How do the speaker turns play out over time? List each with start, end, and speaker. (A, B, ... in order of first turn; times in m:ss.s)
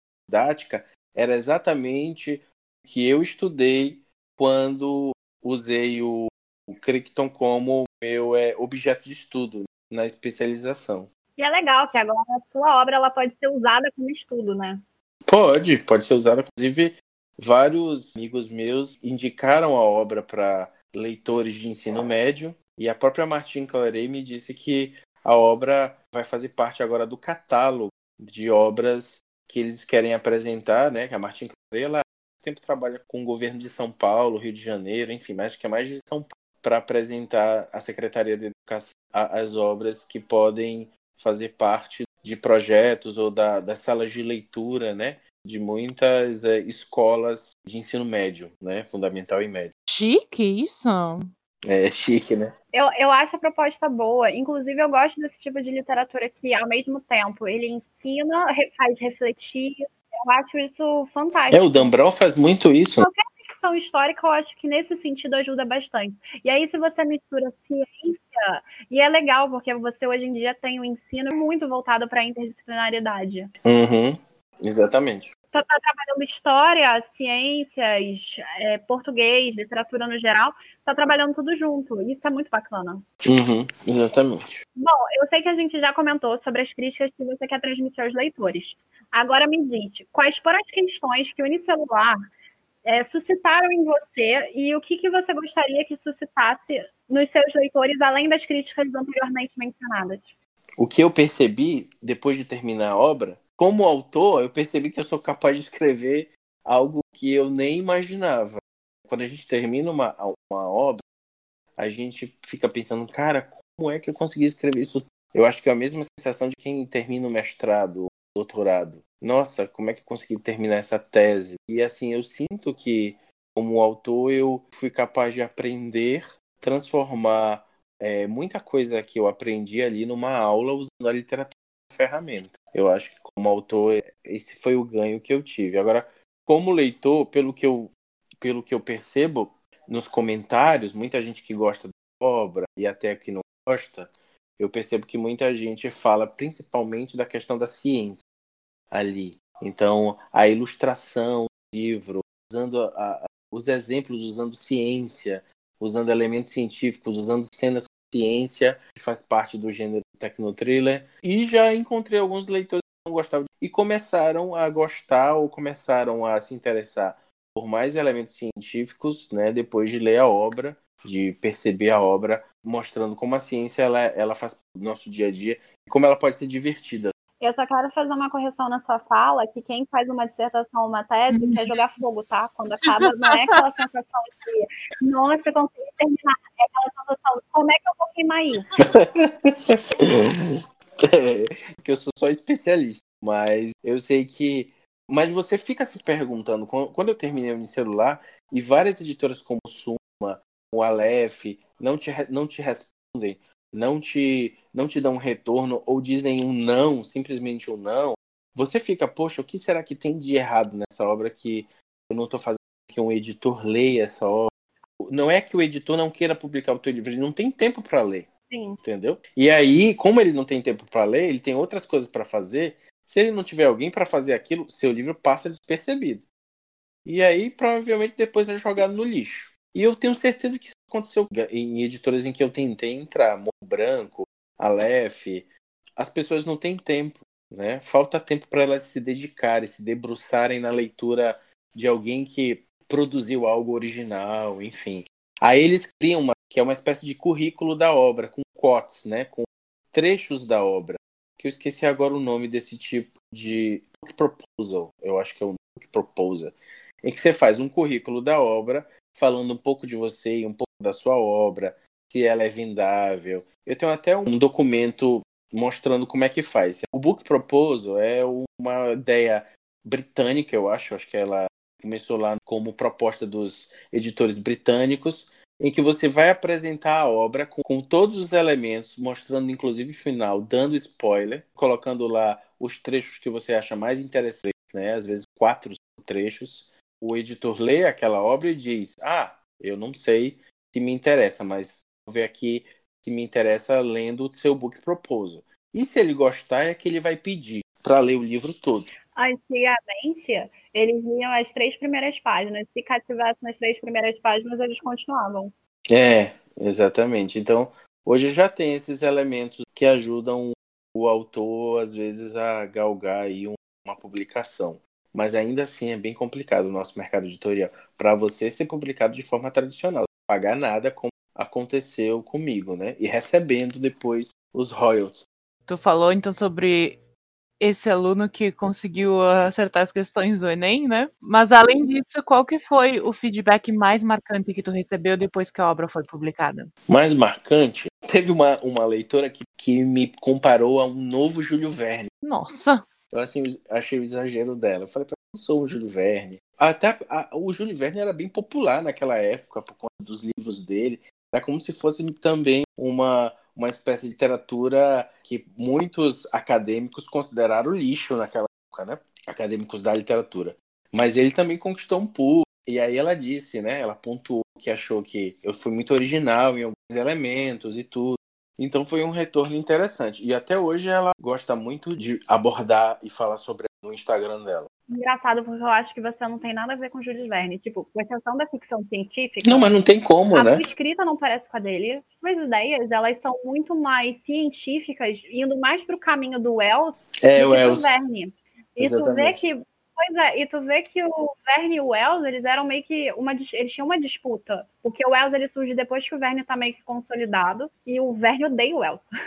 0:00.3-0:11.1 A
0:11.4-0:14.8 B
0:15.3-0:49.7 A
0:49.9-0:51.3 C
0:51.6-0:52.5 A
0:52.7-1:01.9 B
1:01.5-1:03.1 A
1:03.0-1:13.5 B
1:13.6-1:15.3 A
1:15.5-1:23.0 B
1:23.2-1:24.6 A
1:24.8-1:32.2 B
1:32.8-1:40.3 B
1:40.8-1:51.0 A
1:51.8-2:28.2 A
2:28.9-2:57.1 A
2:57.4-3:08.7 B
3:01.3-3:01.6 C
3:08.8-3:34.5 A
3:35.0-3:38.3 A
3:38.5-3:38.8 B
3:38.8-3:46.2 A
3:47.0-4:58.9 A
4:59.1-5:05.5 B
5:05.9-5:25.2 A
5:25.7-5:27.0 C
5:27.6-5:36.7 C
5:36.9-5:42.1 A
5:42.2-5:42.8 C
5:43.1-6:14.7 A
6:14.9-6:19.8 B
6:19.4-6:20.6 A
6:20.3-6:39.1 B
6:27.2-6:28.0 A
6:28.8-6:29.4 A